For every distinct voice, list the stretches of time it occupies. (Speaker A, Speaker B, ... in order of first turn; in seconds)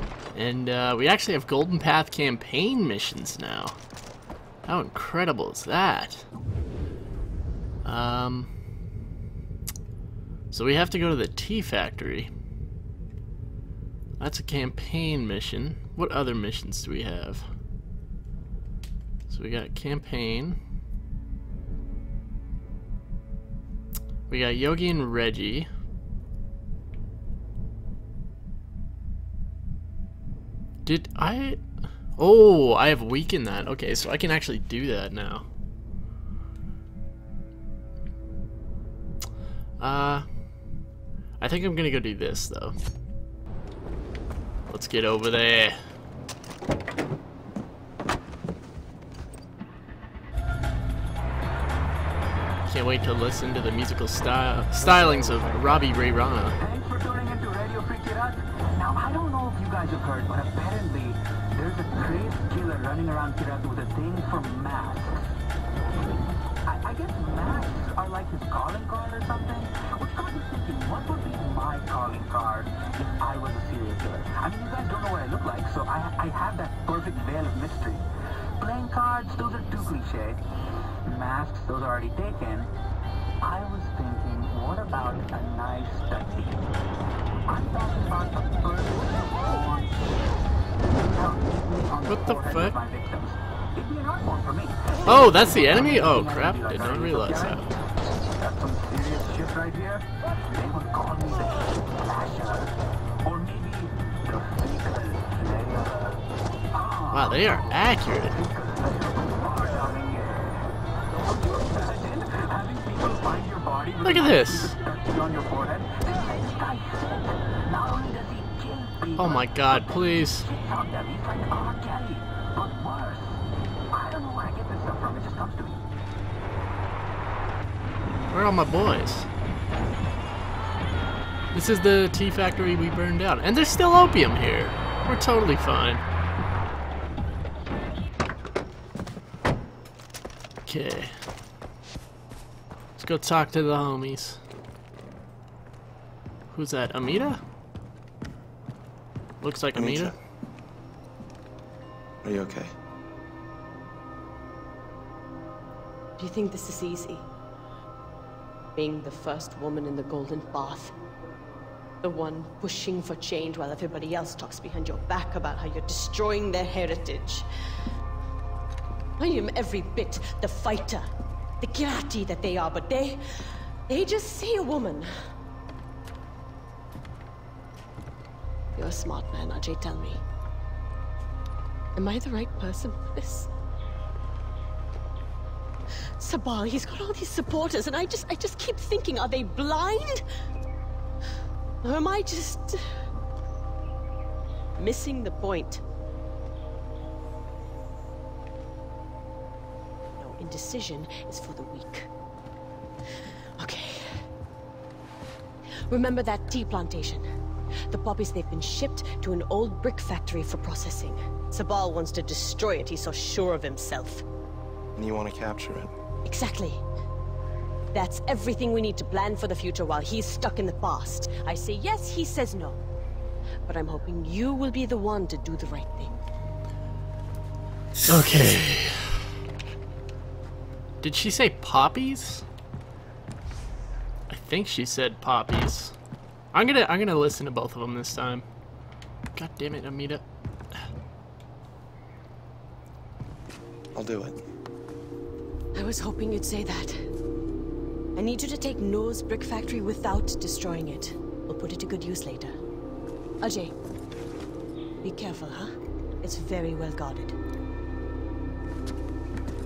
Speaker A: 0.3-3.8, 4.7-6.2, 7.8-8.5, 10.5-12.3, 14.2-17.4, 19.3-20.6, 24.3-25.7, 30.9-31.6, 32.2-35.4, 39.8-40.2, 41.4-42.8, 44.7-45.8, 52.7-56.6, 92.1-92.8, 95.0-97.7, 107.1-108.3, 114.0-114.8, 119.2-120.5, 128.3-129.3, 131.5-136.0, 140.7-141.1, 143.0-144.4, 146.5-147.4, 149.4-150.2, 228.1-229.2, 231.0-232.4, 234.3-235.9, 236.5-238.4, 239.3-240.2
Speaker B: 55.0-55.6, 56.6-65.2, 66.6-78.0, 78.6-80.4, 81.0-82.7, 83.4-86.6, 87.5-90.0, 91.0-97.7, 98.3-125.8
Speaker C: 149.7-150.2, 152.2-152.7, 215.0-215.9, 243.9-244.4
Speaker D: 156.2-157.3, 158.8-160.9, 162.0-167.5, 169.2-171.1, 171.6-173.2, 173.9-175.1, 178.8-180.2, 181.9-183.5, 186.2-190.2, 191.8-192.8, 194.8-195.8, 200.2-202.1, 203.6-204.0, 205.9-207.2, 207.9-214.2, 216.2-216.8, 217.9-222.8, 223.7-226.2, 245.8-246.9, 248.2-252.5, 253.4-253.8, 255.0-255.7, 256.2-257.3